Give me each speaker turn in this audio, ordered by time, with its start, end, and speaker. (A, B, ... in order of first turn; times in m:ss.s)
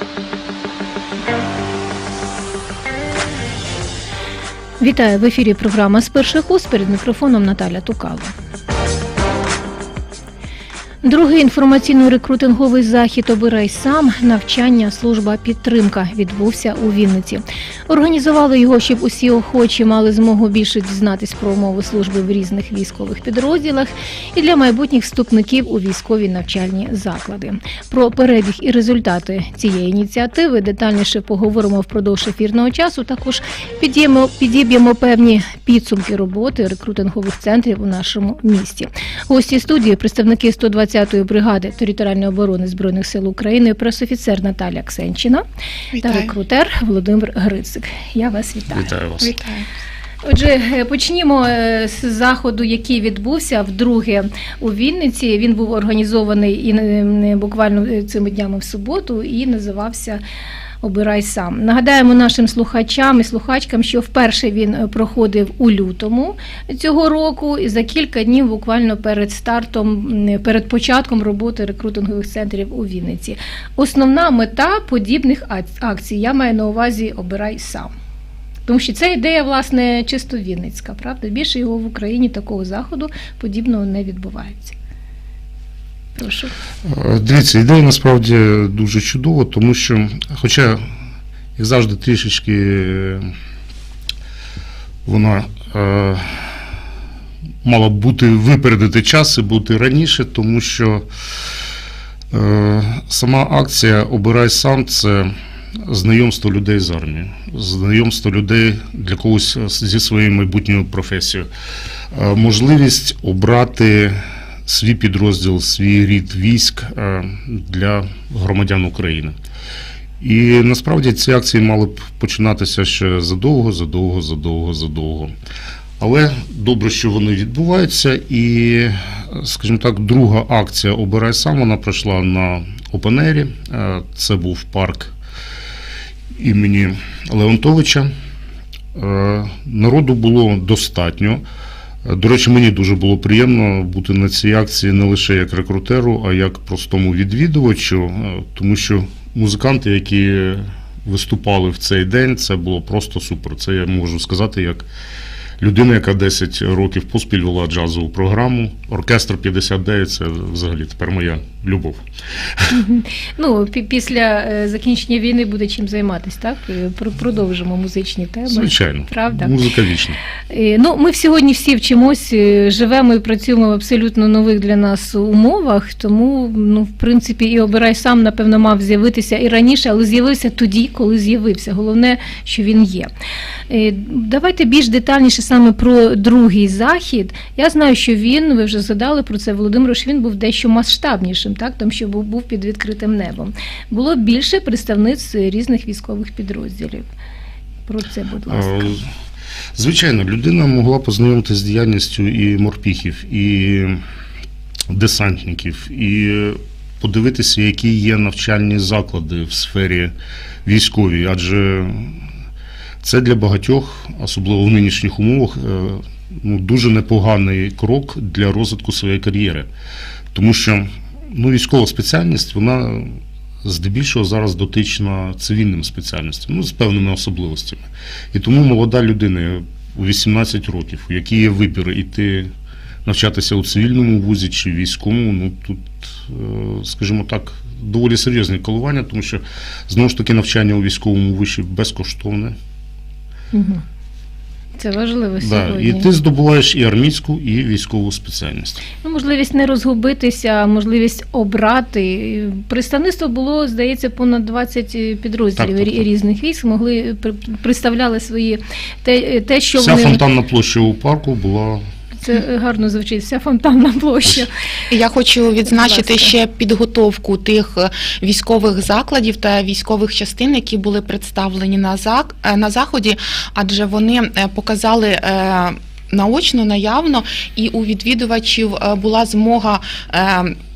0:04.8-0:08.3 A
0:11.0-0:45.4 A
0:46.0-0:46.3 B
0:46.0-0:48.9 A
0:48.7-0:49.3 C
0:49.2-0:49.7 B
0:50.2-1:00.2 A
1:00.8-1:17.9 A
1:18.7-1:24.8 A
1:26.2-1:26.5 A
1:26.8-1:30.8 C
1:31.6-1:33.3 C
1:35.1-1:36.6 C
1:37.6-1:41.1 C
1:42.3-1:51.5 C
1:52.1-1:59.4 C
2:00.2-2:05.3 C
2:06.0-2:15.1 C
2:16.4-2:18.1 C
2:19.0-2:21.4 C
2:22.0-2:34.9 C
2:35.6-2:42.7 C
2:42.7-2:49.6 A
2:48.5-2:50.2 C
2:50.5-3:03.1 A
3:03.7-3:17.1 A
3:17.9-3:18.9 A
3:18.5-3:19.1 C
3:19.8-3:24.0 C
3:24.9-3:30.1 C
3:30.6-3:32.2 C
3:33.0-3:39.7 C
3:40.3-3:52.5 C
3:53.0-4:02.6 C
4:03.5-4:03.8 A
4:04.8-4:06.1 A
4:05.4-4:08.8 C
4:09.0-4:20.2 A
4:15.6-4:16.1 C
4:19.8-4:21.8 C
4:22.2-4:24.5 A
4:24.9-4:40.5 B
4:25.7-4:26.3 A